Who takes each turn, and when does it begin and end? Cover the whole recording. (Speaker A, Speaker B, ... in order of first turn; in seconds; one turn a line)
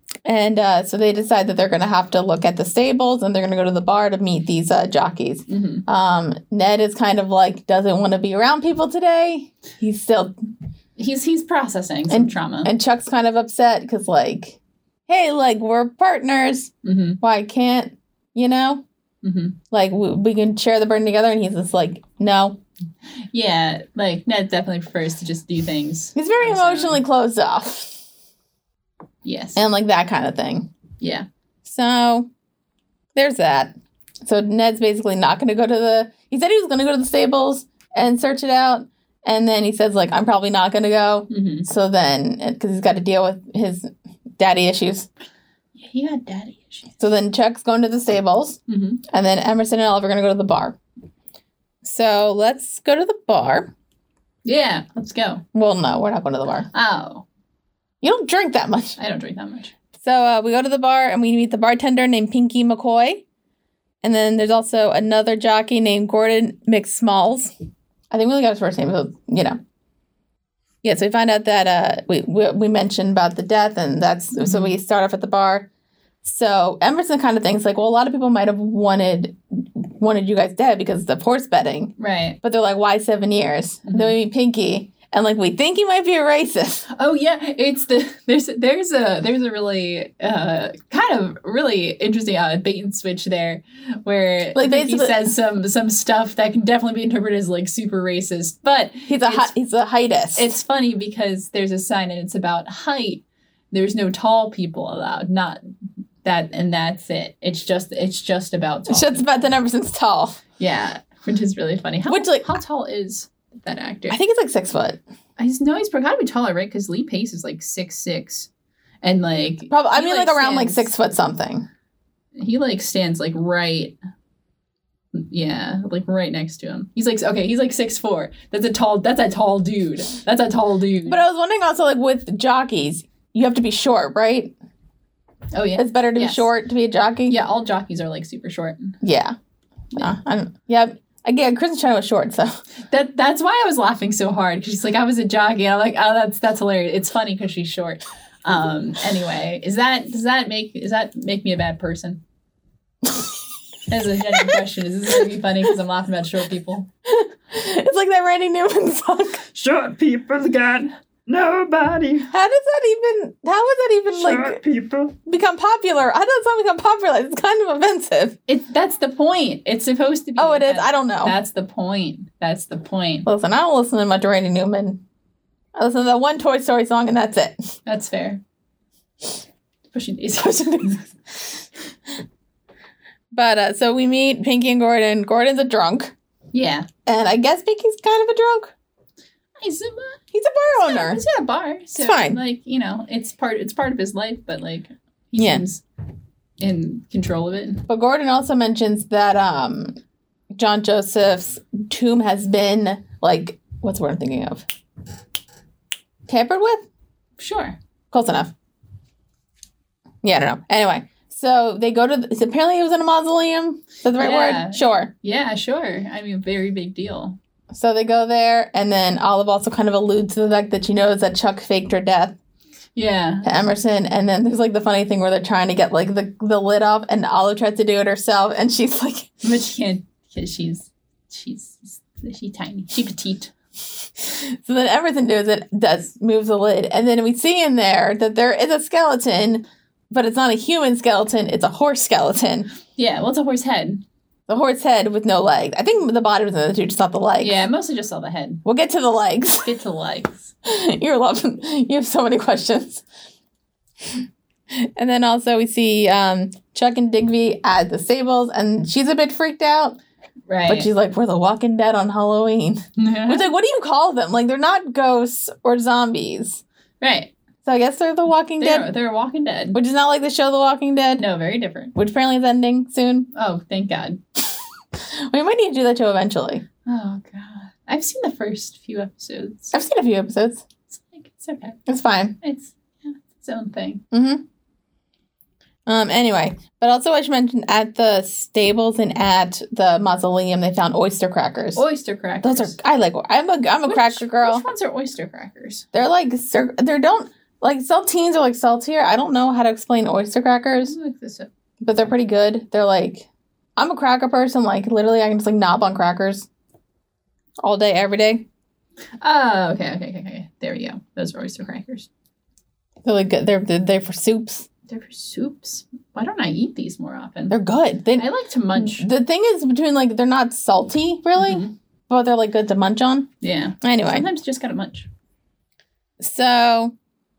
Speaker A: 0.2-10.3
Speaker B: 5.5-5.8
Speaker B: 11.0-12.7
Speaker A: 12.1-18.8
Speaker B: 16.8-17.2
Speaker B: 19.2-19.6
Speaker A: 19.7-22.6
Speaker B: 23.3-27.0
Speaker A: 26.1-28.0
Speaker B: 29.2-29.6
Speaker A: 29.6-30.7
Speaker B: 31.0-31.2
Speaker A: 31.6-32.3
Speaker A: 33.1-45.1
Speaker B: 41.3-41.7
Speaker B: 45.8-46.9
Speaker A: 47.0-50.8
Speaker B: 48.7-49.0
Speaker A: 51.8-53.7
Speaker B: 54.4-55.4
Speaker A: 55.5-56.7
Speaker B: 56.7-57.2
Speaker A: 58.0-59.0
Speaker B: 59.0-59.7
Speaker A: 60.0-63.2
Speaker A: 64.0-67.5
Speaker A: 68.1-69.6
Speaker A: 70.8-75.7
Speaker B: 74.3-74.7
Speaker A: 76.2-86.8
Speaker B: 82.0-82.4
Speaker B: 83.8-84.1
Speaker B: 86.9-99.5
Speaker A: 94.5-95.2
Speaker A: 99.1-100.5
Speaker B: 100.3-105.6
Speaker B: 106.2-109.4
Speaker A: 108.9-110.4
Speaker B: 110.6-114.2
Speaker A: 112.1-112.5
Speaker A: 114.1-115.0
Speaker B: 115.4-118.5
Speaker B: 119.0-120.9
Speaker A: 119.7-121.7
Speaker B: 122.4-124.0
Speaker B: 125.1-131.2
Speaker A: 131.1-134.5
Speaker B: 135.5-136.5
Speaker A: 135.8-137.4
Speaker B: 137.3-138.9
Speaker A: 139.0-139.3
Speaker A: 139.9-142.6
Speaker B: 142.9-152.2
Speaker B: 153.9-156.9
Speaker A: 154.3-154.6
Speaker A: 157.0-159.4
Speaker C: 159.5-162.3
Speaker A: 162.3-164.6
Speaker C: 164.1-165.2
Speaker A: 165.2-168.4
Speaker B: 168.5-173.3
Speaker A: 170.4-171.4
Speaker A: 173.2-175.0
Speaker A: 175.7-177.6
Speaker B: 177.8-178.4
Speaker B: 179.9-181.1
Speaker A: 180.4-181.0
Speaker A: 183.3-186.1
Speaker B: 186.5-186.9
Speaker A: 187.1-188.7
Speaker B: 189.6-190.2
Speaker A: 190.3-191.2
Speaker B: 190.8-195.8
Speaker A: 192.0-192.4
Speaker A: 195.4-195.6
Speaker B: 196.6-197.8
Speaker A: 197.9-199.9
Speaker A: 200.5-204.6
Speaker A: 206.3-206.9
Speaker B: 207.4-207.8
Speaker A: 208.1-208.5
Speaker A: 210.2-215.1
Speaker B: 214.2-217.4
Speaker A: 217.7-222.4
Speaker B: 222.9-223.5
Speaker A: 223.4-229.4
Speaker B: 229.4-233.5
Speaker A: 234.2-242.7
Speaker B: 242.9-244.0
Speaker A: 244.5-247.7
Speaker B: 247.4-248.6
Speaker A: 248.6-249.7
Speaker B: 249.6-250.5
Speaker A: 250.6-253.0
Speaker A: 254.8-260.0
Speaker B: 260.5-260.9
Speaker A: 260.7-266.6
Speaker B: 263.0-263.5
Speaker B: 267.0-267.3
Speaker A: 267.6-268.9
Speaker B: 268.6-269.8
Speaker A: 269.7-271.2
Speaker B: 271.2-271.9
Speaker A: 271.9-273.3
Speaker B: 273.3-274.2
Speaker A: 275.1-276.6
Speaker B: 276.9-279.7
Speaker A: 279.7-280.6
Speaker B: 280.9-281.8
Speaker A: 281.9-282.4
Speaker B: 282.4-284.0
Speaker A: 284.1-284.4
Speaker A: 285.9-291.8
Speaker B: 291.8-292.8
Speaker A: 292.4-294.6
Speaker B: 293.9-295.9
Speaker A: 295.9-300.9
Speaker B: 300.8-301.5
Speaker A: 301.8-306.5
Speaker A: 307.6-308.4
Speaker B: 309.2-312.1
Speaker A: 313.0-314.7
Speaker B: 314.9-317.6
Speaker A: 317.5-323.3
Speaker B: 318.2-319.1
Speaker B: 321.4-321.7
Speaker B: 323.4-325.1
Speaker A: 323.8-324.2
Speaker A: 326.2-326.9